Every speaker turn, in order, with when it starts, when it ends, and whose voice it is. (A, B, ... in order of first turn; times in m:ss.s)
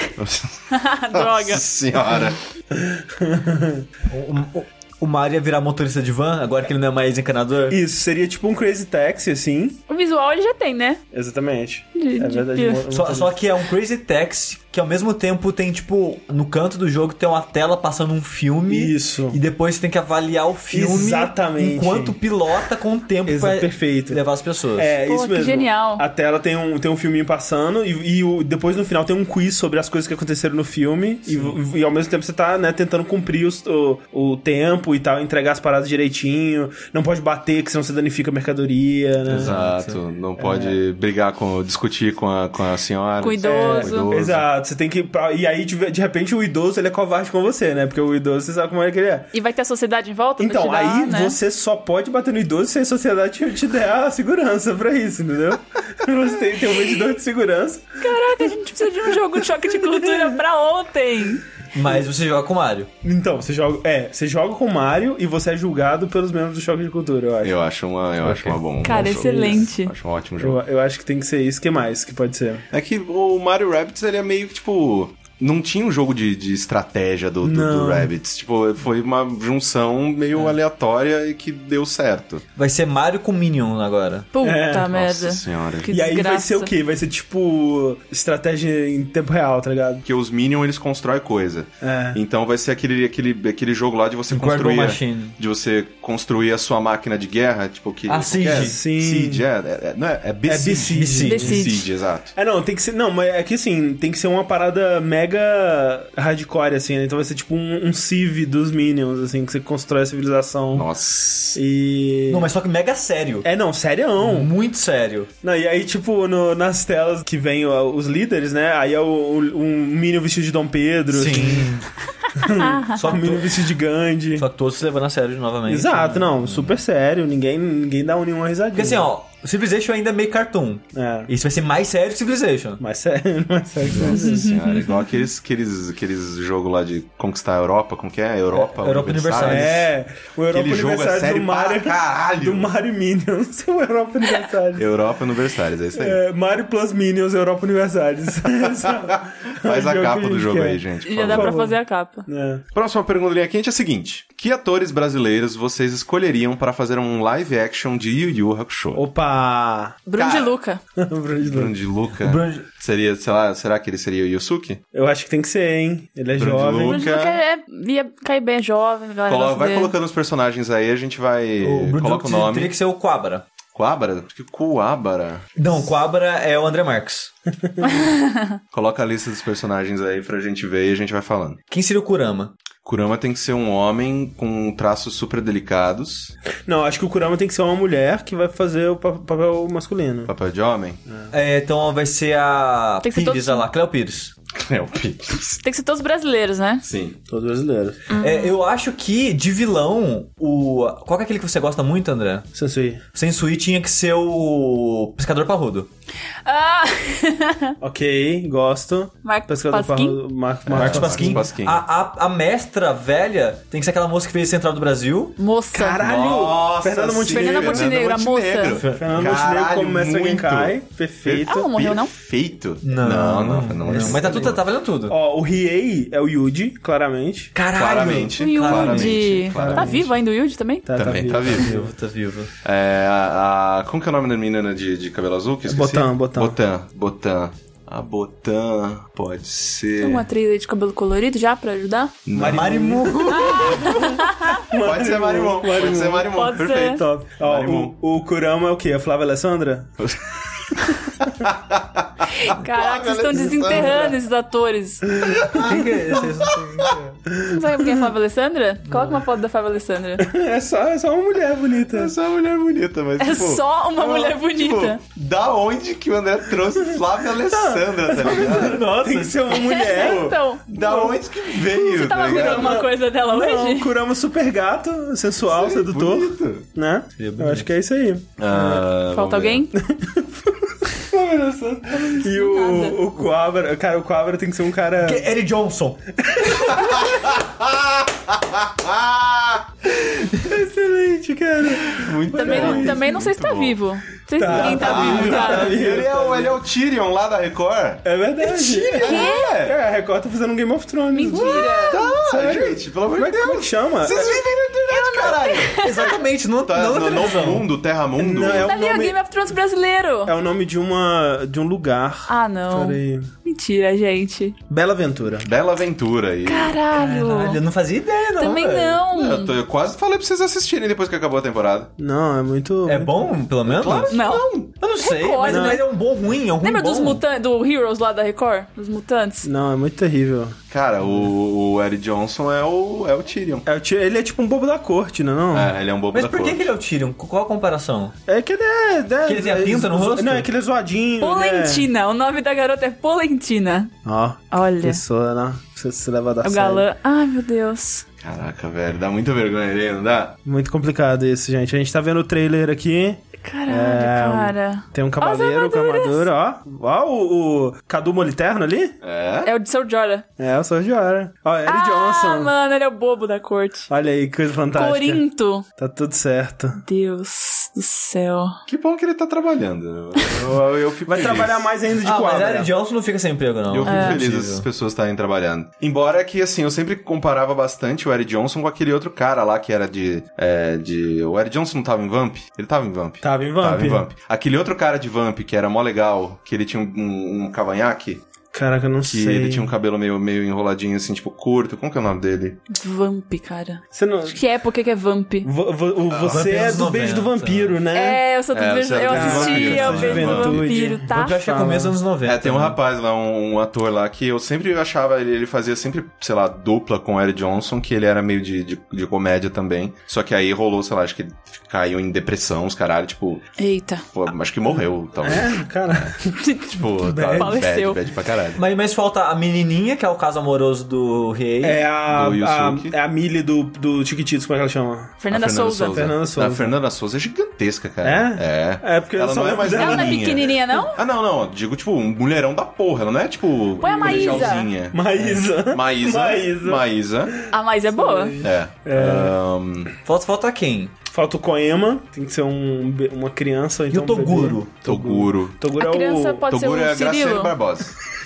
0:00.2-0:02.4 A
0:00.7-0:01.6 B
0:02.7-0:03.8 C
0:04.1-0:07.8 D
0:07.7-0:09.8 C
0:09.9-0:11.0 B
0:11.1-0:13.3 C
0:12.0-0:12.8 B
0:12.9-0:24.9 D
0:18.7-0:19.4 C
0:20.7-0:22.2 C
0:23.2-0:24.2 C
0:24.7-0:39.6 C
0:25.0-0:26.0 B
0:31.3-0:31.6 D
0:39.3-0:40.0 D
0:39.3-0:44.4 A
0:40.4-0:40.8 C
0:43.2-0:44.1 B
0:43.4-0:49.3 C
0:49.3-0:51.4 B
0:50.4-0:58.0 C
0:58.0-1:01.4 B
0:59.9-1:00.3 C
1:01.7-1:02.9 D
1:03.0-1:07.6 C
1:07.4-1:10.6 A
1:08.2-1:08.6 D
1:08.8-1:09.9 B
1:08.9-1:09.6 C
1:10.4-1:12.6 C
1:12.7-1:22.4 A
1:17.4-1:18.1 C
1:22.6-1:24.3 D
1:24.3-1:26.7 B
1:24.4-1:24.9 C
1:24.9-1:25.9 A
1:25.9-1:30.0 C
1:30.0-1:42.3 A
1:31.8-1:32.2 C
1:34.3-1:35.4 D
1:38.1-1:38.8 D
1:38.5-1:39.4 C
1:40.4-1:41.6 C
1:40.9-1:41.6 D
1:41.2-1:41.9 B
1:42.3-1:50.9 C
1:50.7-1:51.6 A
1:51.5-1:52.5 C
1:52.3-1:53.5 D
1:53.4-1:54.5 C
1:54.2-1:55.3 D
1:55.4-2:01.7 C
2:01.1-2:01.9 D
2:02.4-2:04.5 C
2:02.5-2:03.0 B
2:02.9-2:03.7 D
2:04.3-2:06.8 D
2:05.6-2:09.1 C
2:08.7-2:12.8 D
2:10.9-2:11.3 C
2:12.8-2:14.5 C
2:13.9-2:14.1 D
2:14.0-2:15.0 B
2:14.2-2:19.8 A
2:18.5-2:19.9 D
2:19.4-2:24.9 C
2:20.5-2:22.7 A
2:24.7-2:26.2 A
2:26.0-2:31.8 C
2:28.8-2:31.5 A
2:31.0-2:32.2 B
2:32.3-2:32.6 C
2:32.7-2:39.0 A
2:38.9-2:40.0 C
2:40.1-2:40.8 B
2:40.2-2:40.5 A
2:41.0-2:41.7 C
2:41.4-2:44.8 A
2:42.2-2:42.6 D
2:44.9-2:47.0 C
2:46.4-2:47.4 A
2:46.8-2:49.9 B
2:49.3-2:52.7 A
2:51.6-2:53.4 D
2:53.7-2:55.5 A
2:55.6-2:57.3 D
2:57.8-2:58.6 B
2:58.7-3:01.6 A
3:01.7-3:02.5 D
3:02.8-3:06.3 A
3:06.6-3:10.3 C
3:10.2-3:11.0 A
3:11.3-3:14.3 D
3:13.0-3:13.6 B
3:14.5-3:15.6 A
3:15.6-3:16.8 B
3:16.8-3:17.2 A
3:17.3-3:18.0 C
3:18.1-3:18.5 B
3:18.2-3:22.5 D
3:22.5-3:23.0 C
3:23.1-3:25.9 D
3:26.4-3:27.7 B
3:27.8-3:31.5 C
3:29.2-3:30.2 B
3:30.7-3:31.8 A
3:30.7-3:35.4 D
3:35.4-3:36.0 B
3:35.7-3:37.9 C
3:36.0-3:44.6 A
3:37.3-3:38.8 B
3:38.7-3:39.3 D
3:38.9-3:41.6 C
3:41.5-3:42.1 B
3:42.8-3:45.2 D
3:43.8-3:47.5 C
3:47.5-3:49.4 D
3:47.7-3:50.1 A
3:48.4-3:50.9 B
3:49.5-3:50.1 C
3:50.8-3:51.9 C
3:51.0-3:51.7 A
3:51.4-3:52.5 D
3:52.6-4:00.2 A
3:55.7-3:56.6 C
4:00.0-4:02.2 B
4:02.2-4:02.9 A
4:02.3-4:09.9 C
4:02.4-4:04.2 D
4:03.3-4:04.6 B
4:04.8-4:07.9 A
4:06.3-4:07.0 B
4:10.0-4:14.1 A
4:12.4-4:15.2 B
4:13.4-4:14.1 C
4:15.2-4:16.2 C
4:15.4-4:16.2 A
4:15.5-4:17.2 D
4:17.5-4:20.2 B
4:20.2-4:22.1 C
4:21.9-4:28.8 A
4:23.2-4:25.0 B
4:27.4-4:31.1 C
4:28.2-4:29.6 D
4:29.5-4:33.9 B
4:29.9-4:32.8 A
4:32.2-4:38.8 C
4:35.4-4:36.7 A
4:37.2-4:37.7 D
4:38.4-4:39.7 A
4:39.1-4:39.7 B
4:39.8-4:45.3 C
4:41.9-4:43.0 B
4:45.0-4:46.0 D
4:46.2-4:47.1 C
4:46.5-4:49.6 A
4:49.9-4:53.1 C
4:51.9-4:53.8 A
4:52.3-4:55.8 B
4:54.4-4:56.6 C
4:54.4-4:58.0 A
4:55.0-4:55.4 D
4:58.0-5:04.4 C
4:58.4-4:59.2 D
4:58.7-4:59.8 A
4:59.0-4:59.6 B
5:01.1-5:02.0 B
5:01.8-5:05.9 A
5:04.9-5:06.2 B
5:05.7-5:07.7 D
5:06.6-5:08.7 A
5:08.2-5:09.2 C
5:08.6-5:10.3 B
5:10.2-5:13.3 C
5:12.3-5:14.6 B
5:14.7-5:15.5 C
5:15.4-5:16.8 A
5:16.4-5:17.6 B
5:16.9-5:19.0 D
5:18.4-5:19.5 B
5:19.1-5:21.9 A
5:22.0-5:23.3 C
5:22.8-5:24.2 D
5:23.6-5:24.7 A
5:24.1-5:25.8 B
5:24.7-5:27.2 D
5:25.4-5:25.8 C
5:26.6-5:29.5 B
5:29.4-5:30.6 C
5:30.7-5:33.6 A
5:33.6-5:35.7 C
5:35.5-5:36.7 A
5:36.1-5:38.1 D
5:38.3-5:41.9 C
5:39.2-5:40.5 D
5:41.2-5:43.9 B
5:44.0-5:46.8 C
5:44.5-5:45.0 B
5:46.4-5:48.0 B
5:48.2-5:50.4 A
5:50.4-5:59.0 C
5:53.4-5:56.3 B
5:59.0-5:59.5 A
5:59.4-6:00.2 B
6:00.4-6:02.5 C
6:01.6-6:03.9 B
6:03.9-6:05.2 C
6:04.7-6:05.6 B
6:05.8-6:06.8 C
6:06.8-6:08.6 B
6:08.7-6:11.7 A
6:11.1-6:12.7 C
6:12.0-6:14.6 D
6:13.7-6:28.2 A
6:13.8-6:14.2 B
6:23.2-6:24.0 C
6:28.5-6:29.7 C
6:29.0-6:32.6 A
6:32.7-6:35.5 B
6:33.9-6:34.4 C
6:35.4-6:38.2 C
6:36.1-6:36.5 A
6:36.2-6:37.8 D
6:37.9-6:41.4 B
6:38.5-6:40.7 A
6:39.1-6:41.9 C
6:41.0-6:42.8 D
6:42.2-6:53.4 A
6:53.6-6:54.0 B
6:54.1-6:58.6 A
6:55.2-6:56.4 C
6:56.4-6:58.0 B
6:57.1-6:57.5 C
6:58.6-7:01.8 D
7:01.6-7:05.1 C
7:02.1-7:02.9 A
7:05.2-7:06.0 B
7:05.3-7:17.3 A
7:05.9-7:06.7 C
7:08.0-7:10.4 C
7:09.7-7:11.0 B
7:13.8-7:14.7 B
7:13.8-7:16.8 C
7:17.4-7:19.3 C
7:17.5-7:18.4 B
7:18.4-7:19.9 A
7:20.0-7:20.9 D
7:21.1-7:26.4 C
7:23.9-7:24.7 D
7:24.8-7:25.6 A
7:25.8-7:27.5 B
7:26.5-7:27.9 A